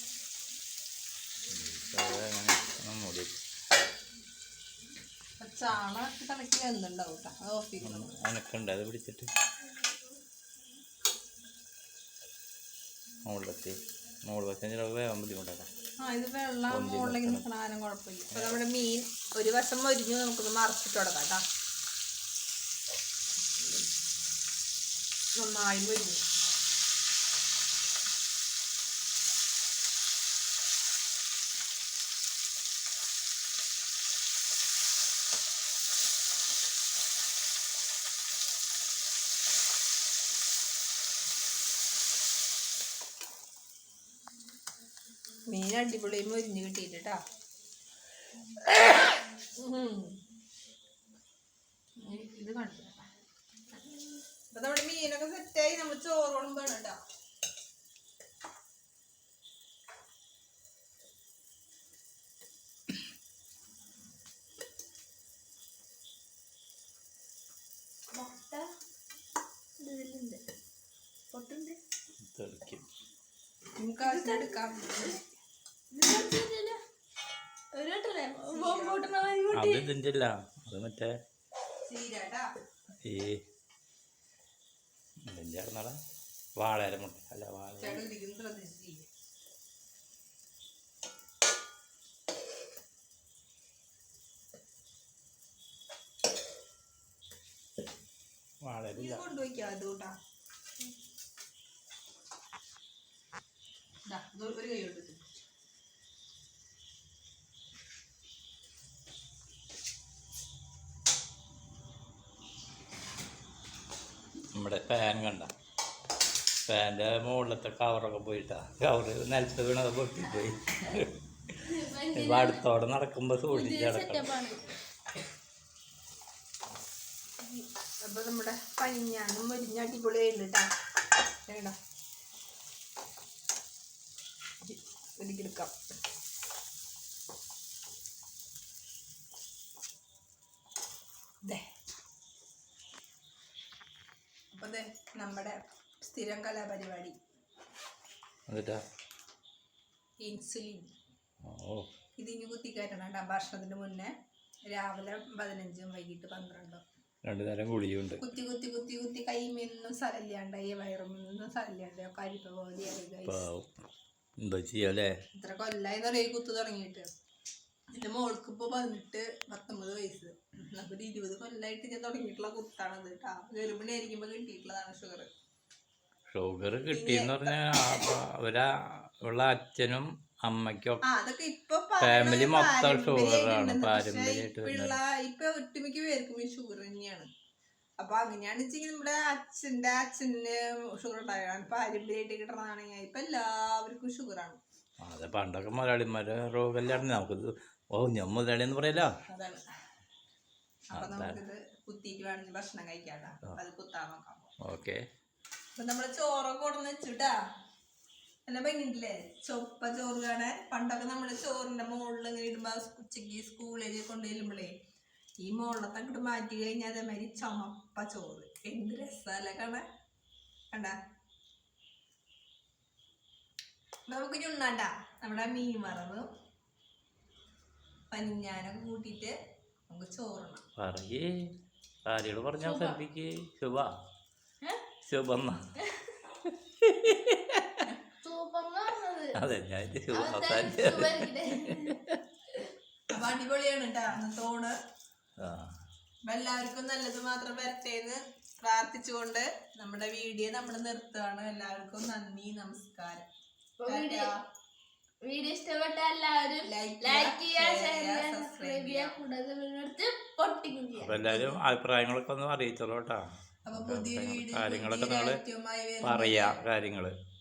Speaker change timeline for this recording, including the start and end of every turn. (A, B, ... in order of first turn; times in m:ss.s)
0:01.5-0:03.4 A
0:05.4-0:08.2 B
0:07.8-0:09.3 A
0:13.3-0:15.7 A
0:16.0-0:21.4 B
0:16.7-0:17.4 A
0:18.3-0:18.6 A
0:25.4-0:26.2 B
0:45.5-0:47.2 B
0:49.6-0:50.2 B
0:52.0-0:53.0 B
0:54.5-0:57.0 B
1:08.1-1:08.7 C
1:09.8-1:10.4 C
1:11.3-1:11.8 C
1:12.2-1:12.8 A
1:13.8-1:15.2 B
1:14.0-1:15.2 C
1:15.9-1:16.8 C
1:17.7-1:19.9 C
1:18.5-1:19.1 B
1:19.5-1:21.1 A
1:21.8-1:22.4 B
1:23.0-1:23.4 A
1:25.3-1:26.0 A
1:26.6-1:28.0 A
1:27.8-1:29.0 B
1:38.6-1:39.2 A
1:38.9-1:40.2 B
1:44.1-1:45.3 B
1:54.5-1:55.5 A
1:56.6-2:04.4 A
2:01.6-2:02.6 C
2:03.5-2:04.7 C
2:07.4-2:10.7 B
2:11.5-2:11.8 B
2:14.6-2:15.7 B
2:24.5-2:27.2 B
2:28.5-2:28.8 A
2:30.2-2:30.9 B
2:31.4-2:31.9 A
2:32.2-2:34.1 B
2:34.7-2:36.8 B
2:37.2-2:38.2 A
2:38.2-2:43.4 B
2:43.2-2:43.7 A
2:44.4-2:45.1 A
2:45.3-2:47.1 B
2:47.9-2:55.3 B
2:56.3-3:01.0 A
2:56.9-2:58.2 B
3:01.0-3:07.3 B
3:02.0-3:05.0 A
3:08.0-3:14.6 B
3:15.0-3:19.1 A
3:19.3-3:19.6 B
3:20.9-3:24.5 B
3:20.9-3:21.4 A
3:24.6-3:25.0 A
3:25.8-3:27.3 B
3:28.5-3:34.7 B
3:35.4-3:39.8 B
3:44.1-3:46.3 B
3:48.1-3:49.3 B
3:49.9-3:50.6 B
3:50.8-3:51.5 A
3:52.0-3:53.9 A
3:52.6-3:53.0 C
3:55.0-3:55.6 A
3:55.8-3:56.1 C
3:56.8-3:57.9 A
3:58.2-3:59.4 C
3:59.3-4:02.2 A
4:00.1-4:02.7 C
4:03.1-4:04.7 B
4:05.4-4:05.8 A
4:06.2-4:13.3 B
4:13.8-4:14.3 C
4:13.9-4:14.4 B
4:15.2-4:21.6 C
4:16.6-4:19.2 B
4:20.9-4:25.4 A
4:23.6-4:26.6 B
4:26.0-4:27.1 A